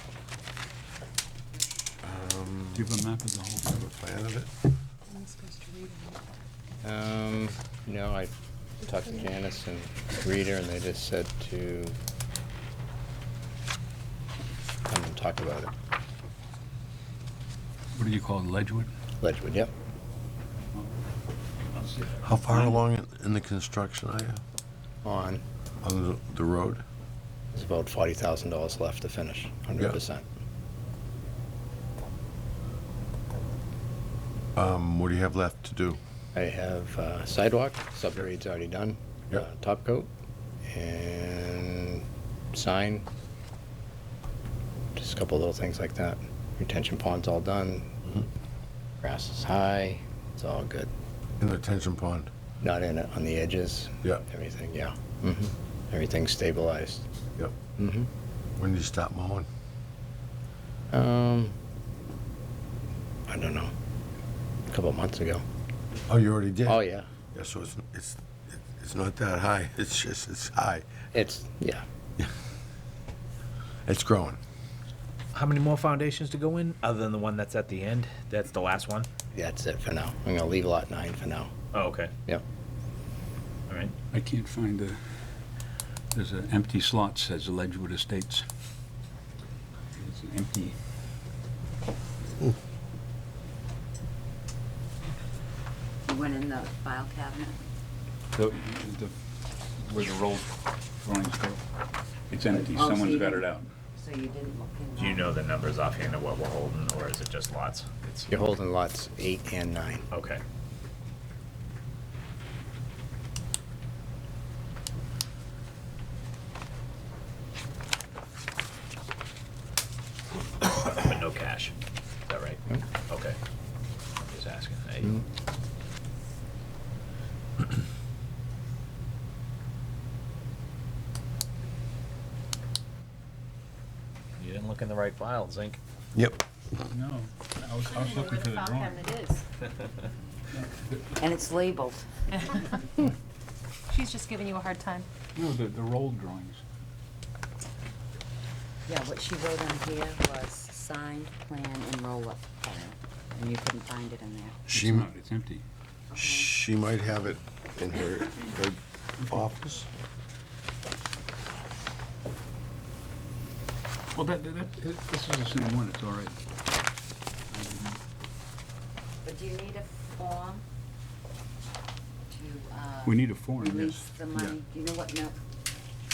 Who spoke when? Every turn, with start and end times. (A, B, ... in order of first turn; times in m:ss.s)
0:02.0-0:03.0 A
0:02.7-0:03.7 B
0:03.6-0:04.5 A
0:05.1-0:06.2 C
0:06.8-0:12.0 D
0:14.9-0:15.7 D
0:17.9-0:18.9 B
0:19.2-0:19.7 D
0:21.7-0:22.8 B
0:22.2-0:24.4 A
0:25.0-0:25.4 D
0:25.8-0:26.8 A
0:27.5-0:30.2 D
0:34.6-0:36.0 A
0:36.3-0:40.1 D
0:40.7-0:43.0 D
0:45.0-0:47.9 D
0:49.0-0:50.9 D
0:51.4-0:52.3 A
0:52.6-0:57.0 D
0:57.8-0:58.1 D
0:58.6-0:59.5 A
1:00.9-1:01.6 D
1:03.3-1:03.7 D
1:04.7-1:05.4 D
1:06.1-1:11.0 A
1:06.6-1:07.1 D
1:11.1-1:11.8 D
1:13.9-1:14.4 A
1:15.3-1:19.1 E
1:19.3-1:21.5 D
1:21.7-1:22.1 E
1:23.7-1:23.9 E
1:24.1-1:25.0 B
1:26.1-1:28.4 B
1:30.0-1:30.8 B
1:36.0-1:37.6 F
1:38.3-1:39.1 B
1:39.8-1:41.6 B
1:42.3-1:43.7 B
1:42.4-1:45.4 F
1:45.0-1:48.3 E
1:48.3-1:50.0 D
1:50.1-1:50.4 E
2:00.8-2:01.8 E
2:02.3-2:03.4 E
2:04.3-2:05.1 E
2:14.4-2:15.8 E
2:16.1-2:16.4 A
2:16.9-2:19.1 B
2:17.9-2:19.4 C
2:20.5-2:21.2 B
2:21.2-2:22.1 F
2:22.3-2:22.9 C
2:23.9-2:25.1 C
2:25.3-2:26.6 B
2:28.8-2:34.7 F
2:34.7-2:35.1 A
2:34.7-2:35.6 B
2:36.1-2:36.5 F
2:36.2-2:39.9 A
2:44.1-2:46.4 B
2:47.5-2:48.0 B
2:49.2-2:50.6 F
2:52.3-2:55.4 F
2:53.0-2:54.5 B